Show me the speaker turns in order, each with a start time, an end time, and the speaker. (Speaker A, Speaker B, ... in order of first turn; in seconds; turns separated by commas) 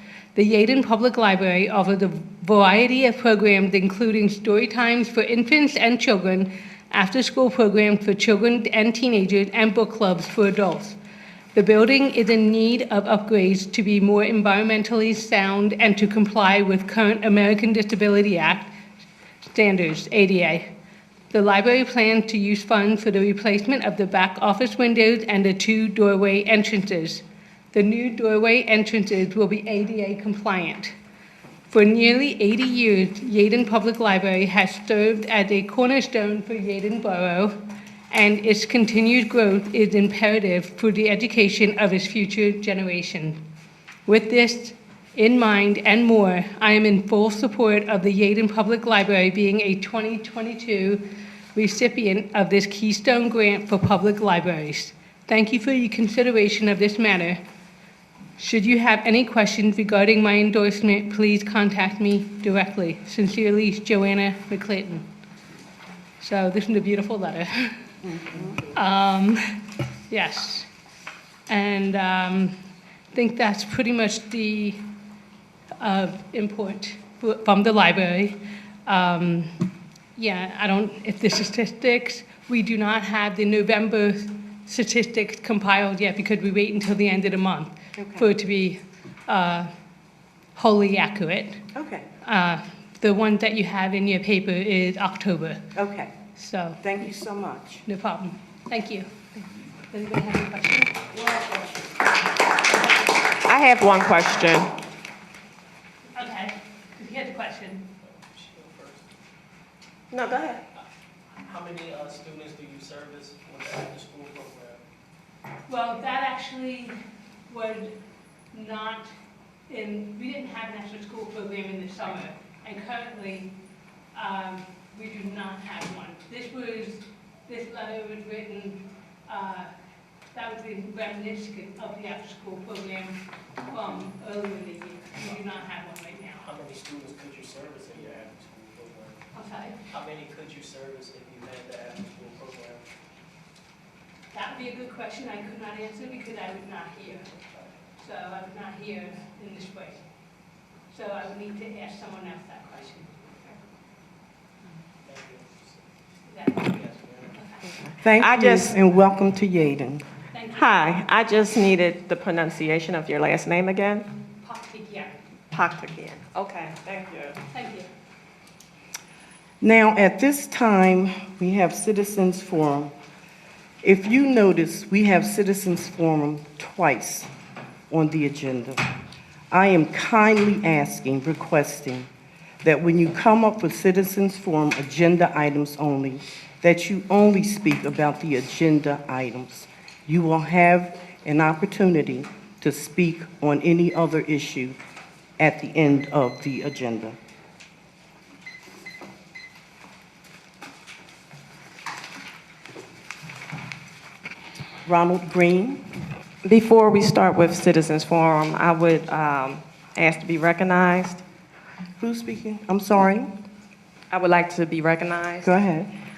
Speaker A: 0.3-11.0, Speaker A: 11.5-18.7, Speaker A: 19.4-20.7, Speaker A: 21.3-30.9, Speaker A: 31.7-37.6, Speaker A: 38.1-43.4, Speaker A: 44.0-57.4, Speaker A: 58.4-65.1, Speaker A: 66.2-67.8, Speaker A: 68.5-70.7, Speaker A: 71.5-72.6, Speaker A: 73.1-74.9, Speaker A: 75.8-89.7, Speaker B: 88.0-88.3, Speaker A: 90.5-91.7, Speaker B: 91.7-92.1, Speaker A: 92.2-95.7, Speaker B: 95.7-96.1, Speaker A: 96.3-96.8, Speaker B: 96.8-97.8, Speaker A: 97.8-99.1, Speaker A: 99.9-101.7, Speaker C: 103.4-104.7, Speaker A: 106.1-107.9, Speaker D: 108.5-109.0, Speaker C: 110.1-110.6, Speaker D: 111.5-114.8, Speaker A: 115.7-117.0, Speaker A: 117.5-118.0, Speaker A: 118.5-119.1, Speaker A: 119.7-123.5, Speaker A: 124.1-129.7, Speaker A: 130.3-136.5, Speaker D: 136.4-139.2, Speaker A: 139.3-139.8, Speaker D: 139.9-142.8, Speaker A: 144.3-147.3, Speaker A: 148.0-150.0, Speaker A: 150.9-153.4, Speaker D: 155.1-155.5, Speaker A: 156.3-156.8, Speaker D: 156.8-157.1, Speaker A: 157.3-157.8, Speaker C: 157.8-158.8, Speaker B: 158.0-160.0, Speaker A: 160.3-160.7, Speaker C: 160.5-164.1, Speaker A: 164.4-165.2, Speaker C: 165.5-167.4, Speaker A: 167.5-167.9, Speaker B: 169.6-172.9, Speaker B: 173.8-177.3, Speaker B: 177.9-178.8, Speaker B: 179.5-182.1, Speaker B: 182.6-194.8, Speaker B: 195.4-197.2, Speaker B: 204.8-205.8, Speaker C: 206.4-211.2, Speaker B: 212.0-213.3, Speaker C: 214.1-215.5, Speaker B: 215.4-215.9